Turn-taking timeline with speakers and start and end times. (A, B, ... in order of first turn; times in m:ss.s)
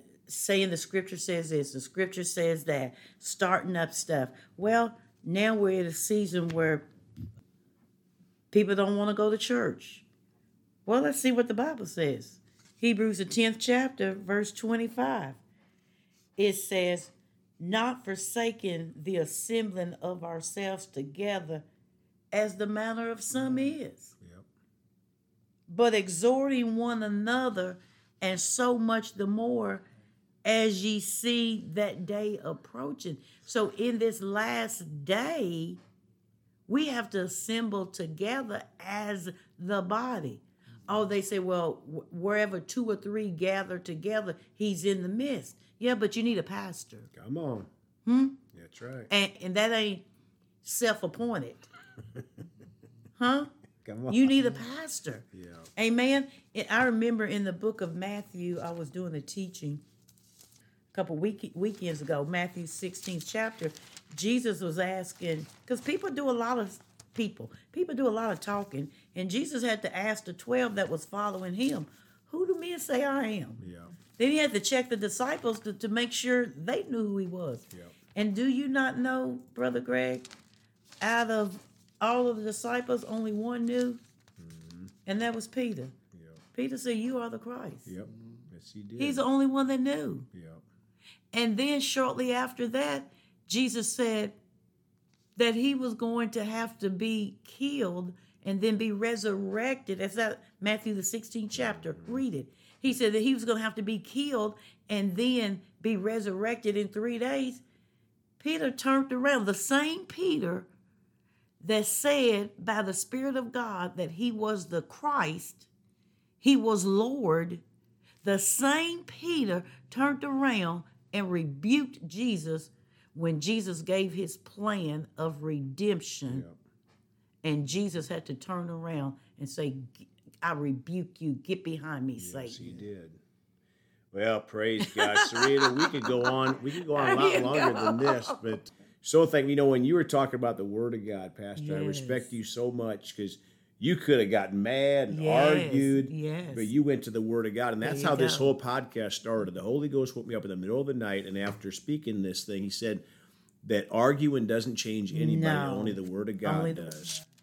0:00.3-0:06.8 A
0:08.5-0:10.0 A
0:10.8-0:15.4 A
0:16.4-0:21.6 A
0:22.3-0:24.1 A
0:24.2-0:24.4 B
0:25.7-0:29.8 A
0:30.4-0:35.8 A
0:36.7-0:47.1 A
0:47.1-0:47.7 B
0:48.0-0:48.4 A
0:48.5-0:49.1 B
0:49.1-0:50.0 A
0:50.6-0:51.7 A
0:53.2-0:53.5 A
0:53.8-0:54.5 B
0:54.1-0:59.8 A
0:55.3-0:55.7 B
1:00.9-1:13.6 A
1:13.6-1:13.9 B
1:14.2-1:20.3 A
1:21.0-1:24.0 A
1:24.4-1:24.9 B
1:25.0-1:25.9 A
1:26.1-1:26.4 B
1:26.5-1:27.9 A
1:27.8-1:29.2 B
1:29.0-1:30.3 A
1:30.3-1:30.6 B
1:31.3-1:34.4 A
1:35.4-1:47.6 A
1:41.5-1:42.2 B
1:48.4-1:50.7 A
1:51.6-1:55.7 A
1:56.4-1:57.6 A
1:58.2-2:06.4 A
2:06.3-2:06.5 B
2:07.4-2:12.8 A
2:12.2-2:13.2 B
2:14.1-2:33.0 B
2:14.8-2:18.4 A
2:21.6-2:22.3 A
2:25.1-2:26.7 A
2:27.8-2:28.5 A
2:33.6-2:37.1 B
2:35.1-2:37.0 A